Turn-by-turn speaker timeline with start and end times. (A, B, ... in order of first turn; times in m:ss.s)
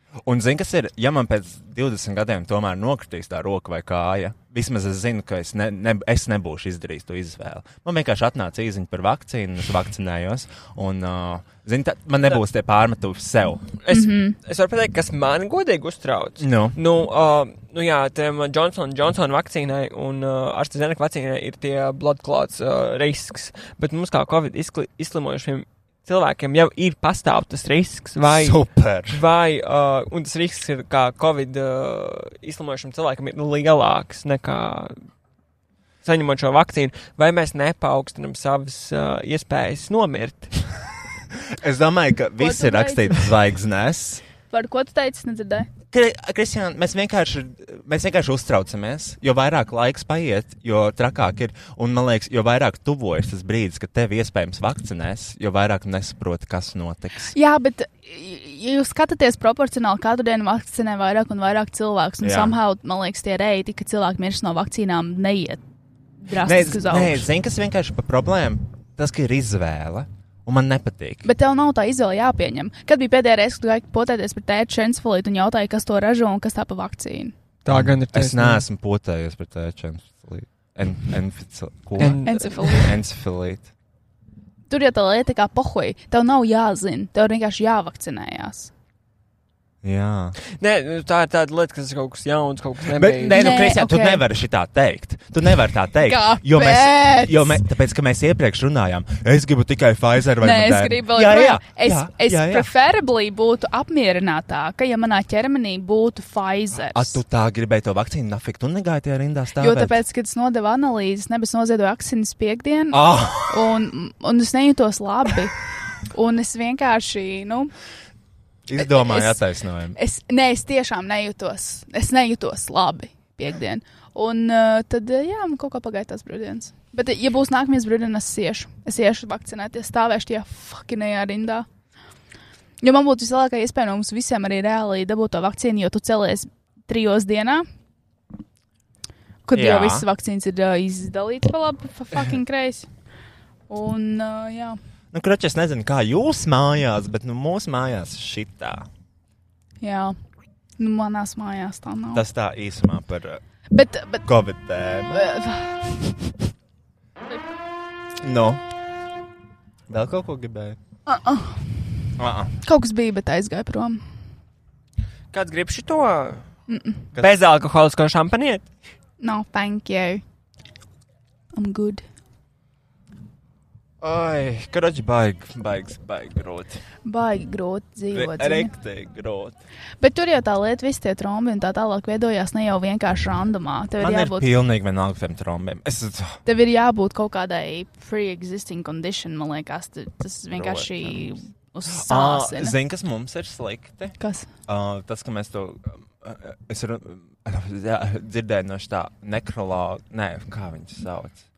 0:00.2-0:13.7 A
0:13.8-0:35.0 B
0:13.9-0:14.4 C
0:16.4-0:16.8 A
0:28.3-0:29.2 A
0:36.0-0:40.6 B
0:41.4-0:44.2 A
0:42.4-0:43.2 C
0:44.5-0:45.7 C
0:45.9-0:57.3 A
0:57.3-1:05.6 C
1:02.2-1:02.6 A
1:06.2-1:07.3 C
1:06.4-1:11.3 A
1:11.2-1:17.3 C
1:17.6-1:18.6 B
1:17.7-1:22.2 A
1:22.0-1:22.8 B
1:22.2-1:22.9 C
1:22.8-1:23.7 A
1:24.7-1:28.7 C
1:29.8-1:30.4 A
1:30.5-1:33.6 B
1:32.9-1:42.7 A
1:33.3-1:34.2 C
1:36.0-1:37.6 C
1:40.4-1:47.2 C
1:46.9-1:50.0 A
1:49.6-1:55.6 C
1:52.9-1:53.7 A
1:56.1-1:57.7 C
1:58.7-2:00.0 A
1:58.8-1:59.4 C
2:00.0-2:11.7 C
2:12.8-2:17.6 C
2:19.5-2:22.9 C
2:19.5-2:20.1 A
2:23.7-2:24.8 C
2:25.1-2:28.9 A
2:29.8-2:30.1 C
2:30.8-2:32.2 C
2:32.1-2:33.4 A
2:33.7-2:34.3 C
2:34.2-2:35.3 A
2:35.1-2:36.1 C
2:38.2-2:38.6 A
2:39.9-2:40.8 A
2:41.1-2:41.9 C
2:42.2-2:42.5 A
2:42.6-2:44.0 C
2:45.3-2:46.5 B
2:46.7-2:47.0 C
2:47.2-2:48.7 B
2:49.2-2:50.2 C
2:51.5-2:52.0 C
2:54.0-2:56.8 A
2:57.0-2:58.7 C
2:58.1-2:59.6 A
3:00.0-3:04.5 C
3:04.0-3:06.4 A
3:06.4-3:12.8 C
3:10.5-3:11.3 A
3:11.9-3:14.1 A
3:14.2-3:14.5 C
3:14.7-3:21.4 A